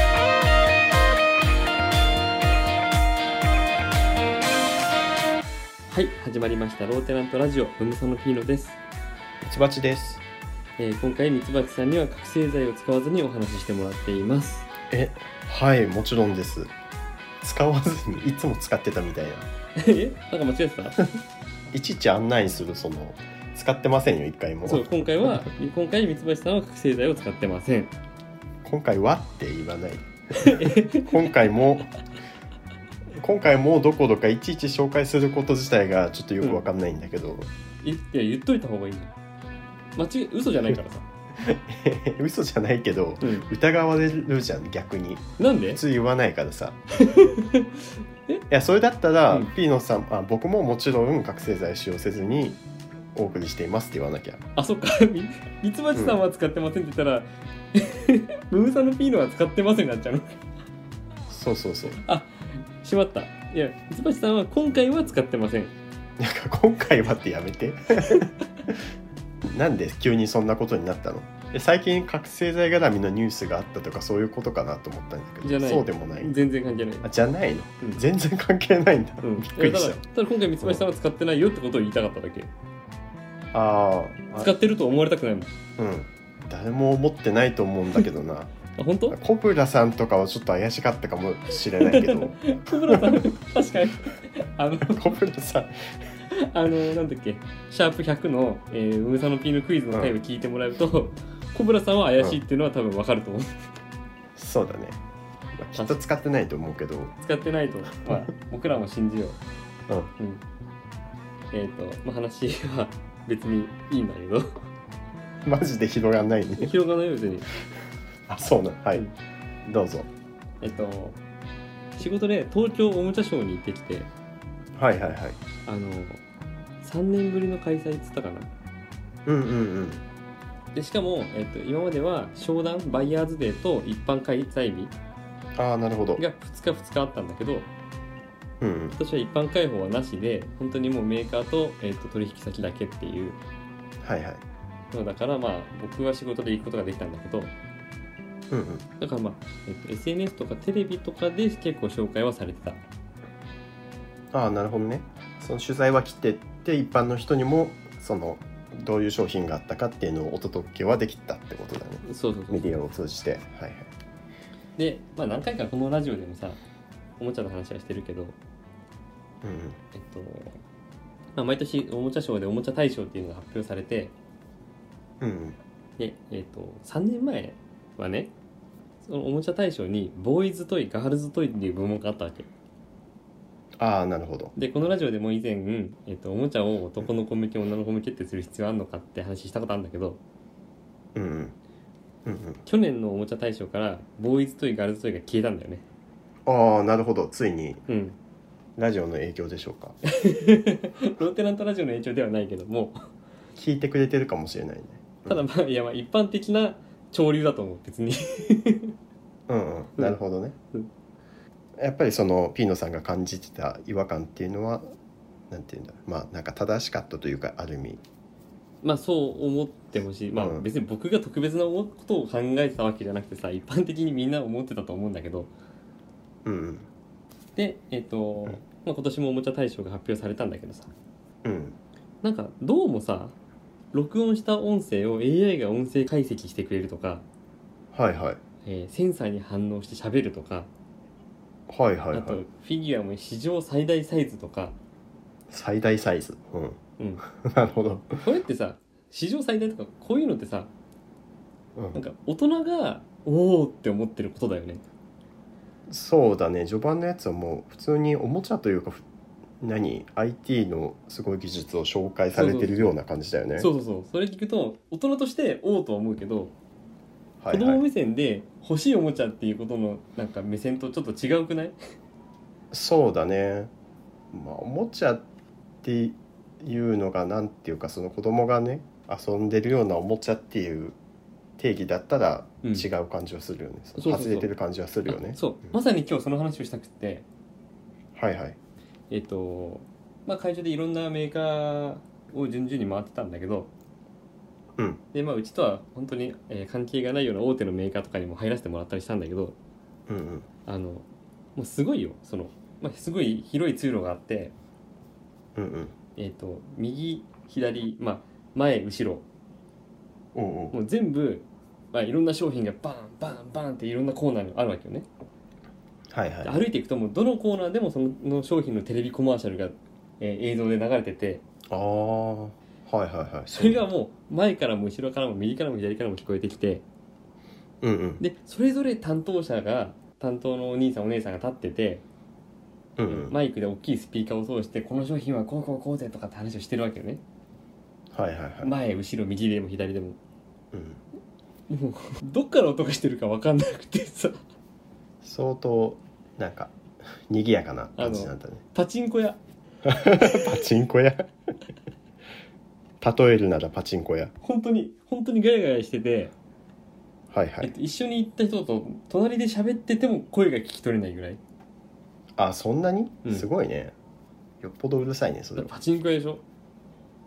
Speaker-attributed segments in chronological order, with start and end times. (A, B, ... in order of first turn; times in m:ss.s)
0:05.9-0:08.8 A
0:09.4-0:10.2 B
0:10.8-0:14.7 A
0:14.9-0:16.7 B
0:17.4-0:19.5 B
0:19.8-0:21.1 A
0:21.7-0:24.8 B
0:24.7-0:27.9 A
0:28.6-0:32.0 B
0:30.4-0:31.2 A
0:33.2-0:37.5 B
0:37.8-0:39.1 A
0:40.0-0:41.1 A
0:41.4-0:46.8 B
0:43.2-0:43.5 A
0:45.4-0:45.8 A
0:47.0-0:48.4 A
0:48.5-0:52.6 B
0:53.1-0:54.4 B
0:54.6-1:00.4 A
1:01.3-1:02.0 B
1:02.0-1:02.3 A
1:02.8-1:05.7 A
1:06.2-1:08.3 B
1:08.0-1:08.3 A
1:09.4-1:16.4 B
1:15.4-1:17.1 A
1:17.0-1:20.0 B
1:19.2-1:22.5 A
1:23.5-1:24.5 B
1:24.4-1:25.5 A
1:25.8-1:28.5 B
1:28.8-1:29.2 A
1:29.1-1:33.3 B
1:31.8-1:35.1 A
1:34.8-1:35.9 B
1:36.3-1:43.5 A
1:39.9-1:40.2 B
1:44.4-1:45.0 B
1:45.6-1:47.1 B
1:47.2-1:49.4 A
1:51.5-1:54.6 A
1:55.4-1:56.7 B
1:56.6-1:57.5 A
1:58.3-1:59.1 B
1:59.6-2:00.1 B
2:00.6-2:01.2 A
2:02.0-2:04.1 A
2:04.8-2:05.4 B
2:05.7-2:06.2 A
2:06.8-2:08.5 A
2:09.3-2:10.0 B
2:10.7-2:14.9 A
2:15.6-2:16.2 B
2:16.2-2:17.7 A
2:18.6-2:19.0 B
2:18.9-2:23.4 A
2:24.0-2:24.4 B
2:24.9-2:27.5 A
2:28.5-2:28.8 B
2:29.0-2:32.8 A
2:34.3-2:43.9 B
2:42.0-2:42.8 A
2:44.8-2:46.6 A
2:47.2-2:48.4 A
2:49.4-2:49.8 B
2:49.9-2:50.6 A
2:51.4-2:54.1 A
2:55.2-2:55.6 B
2:56.0-2:58.3 A
2:59.0-3:02.5 A
3:03.8-3:04.5 B
3:04.6-3:10.2 A
3:11.2-3:11.6 B
3:12.2-3:12.6 B
3:12.7-3:15.8 A
3:16.5-3:17.8 B
3:17.9-3:18.2 A
3:18.8-3:20.0 B
3:20.1-3:23.0 A
3:23.6-3:25.4 B
3:25.3-3:28.9 A
3:29.5-3:30.6 B
3:31.8-3:34.9 B
3:35.5-3:38.0 B
3:38.8-3:45.5 A
3:40.4-3:40.7 B
3:46.4-3:46.9 B
3:47.6-3:50.9 A
3:51.4-3:51.8 B
3:52.2-3:53.4 A
3:53.9-3:57.2 A
3:57.9-3:58.4 B
3:58.6-4:00.7 A
4:01.7-4:02.4 B
4:02.1-4:04.8 A
4:05.5-4:08.2 B
4:08.2-4:10.7 A
4:11.9-4:14.8 A
4:15.9-4:19.0 B
4:19.6-4:23.7 B
4:22.3-4:22.9 A
4:23.6-4:26.5 A
4:27.4-4:27.8 B
4:27.5-4:31.8 A
4:32.7-4:33.7 B
4:34.3-4:35.2 B
4:35.8-4:41.0 B
4:41.6-4:45.8 B
4:42.6-4:42.9 A
4:44.0-4:44.5 A
4:45.1-4:47.2 A
4:48.2-4:48.6 B
4:49.1-4:53.7 A
4:54.8-4:55.0 B
4:55.1-4:59.6 A
5:00.1-5:00.5 B
5:00.7-5:01.0 A
5:01.6-5:04.5 A
5:05.6-5:06.0 B
5:06.2-5:09.2 A
5:10.4-5:10.8 B
5:10.7-5:15.1 A
5:16.1-5:16.6 B
5:16.4-5:21.4 A
5:21.7-5:23.8 B
5:23.5-5:26.8 A
5:27.8-5:28.2 B
5:28.2-5:32.0 A
5:33.0-5:33.4 B
5:33.1-5:37.2 A
5:38.1-5:38.7 B
5:38.6-5:40.2 A
5:40.7-5:41.0 B
5:41.7-5:44.4 A
5:45.2-5:48.6 B
5:48.0-5:49.4 A
5:49.8-5:51.3 B
5:50.1-5:50.5 A
5:53.0-5:54.3 B
5:54.4-5:56.3 A
5:57.3-5:57.7 B
5:57.6-6:01.4 A
6:02.4-6:03.9 B
6:04.6-6:05.7 B
6:05.6-6:06.4 A